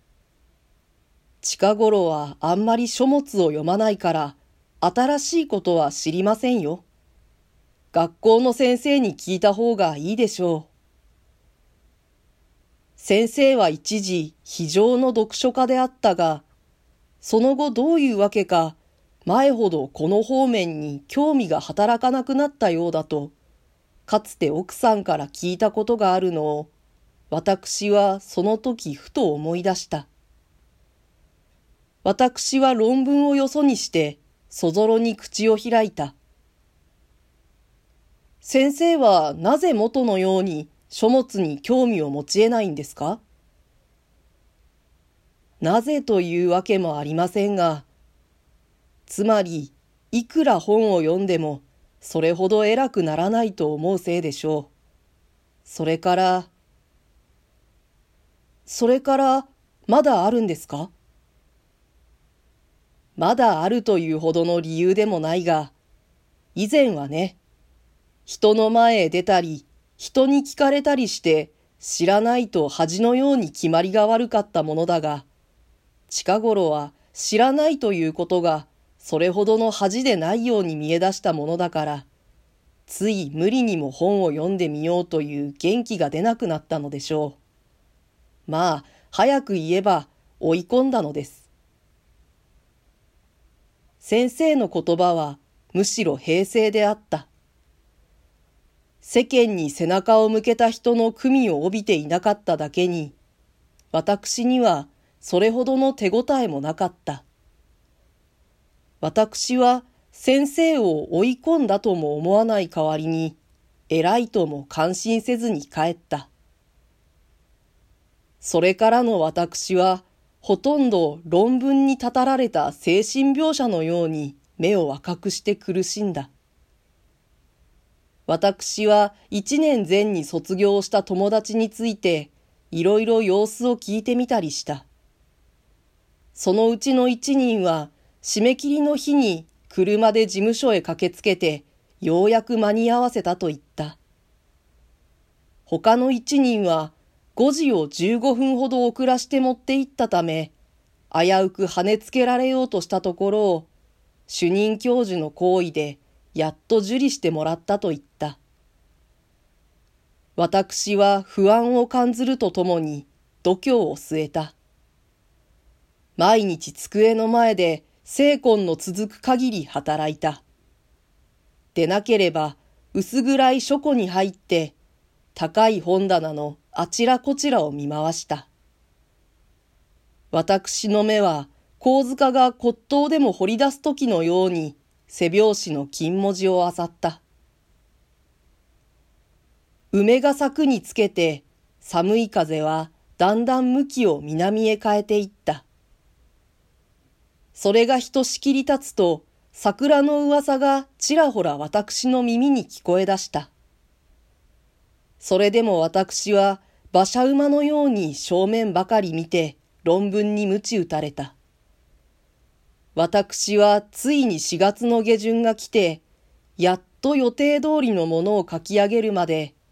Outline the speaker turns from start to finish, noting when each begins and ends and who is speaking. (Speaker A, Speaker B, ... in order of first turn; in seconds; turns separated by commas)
Speaker A: 1.4-6.8, Speaker A: 7.9-10.7, Speaker A: 13.0-16.4, Speaker A: 17.2-23.3, Speaker A: 24.1-26.7, Speaker A: 27.3-30.1, Speaker A: 32.0-36.1, Speaker A: 38.4-43.2, Speaker A: 45.6-47.9, Speaker A: 49.1-54.7, Speaker A: 55.6-56.5, Speaker A: 58.6-60.9, Speaker A: 63.1-65.7, Speaker A: 66.5-67.4, Speaker A: 68.2-75.2, Speaker A: 76.1-82.1, Speaker A: 82.9-87.4, Speaker A: 88.5-91.5, Speaker A: 94.0-97.3, Speaker A: 99.0-103.1, Speaker A: 103.9-107.2, Speaker A: 109.0-113.4, Speaker A: 113.9-116.3, Speaker A: 118.4-126.3, Speaker A: 128.3-134.8, Speaker A: 136.3-144.0, Speaker A: 145.7-150.5, Speaker A: 151.1-153.7, Speaker A: 154.3-158.4, Speaker A: 160.4-164.5, Speaker A: 166.2-170.4, Speaker A: 171.7-174.7, Speaker A: 175.3-178.5, Speaker A: 180.3-187.2, Speaker A: 189.9-195.6, Speaker A: 197.5-203.5, Speaker A: 205.2-211.3, Speaker A: 212.9-216.0, Speaker A: 216.6-219.6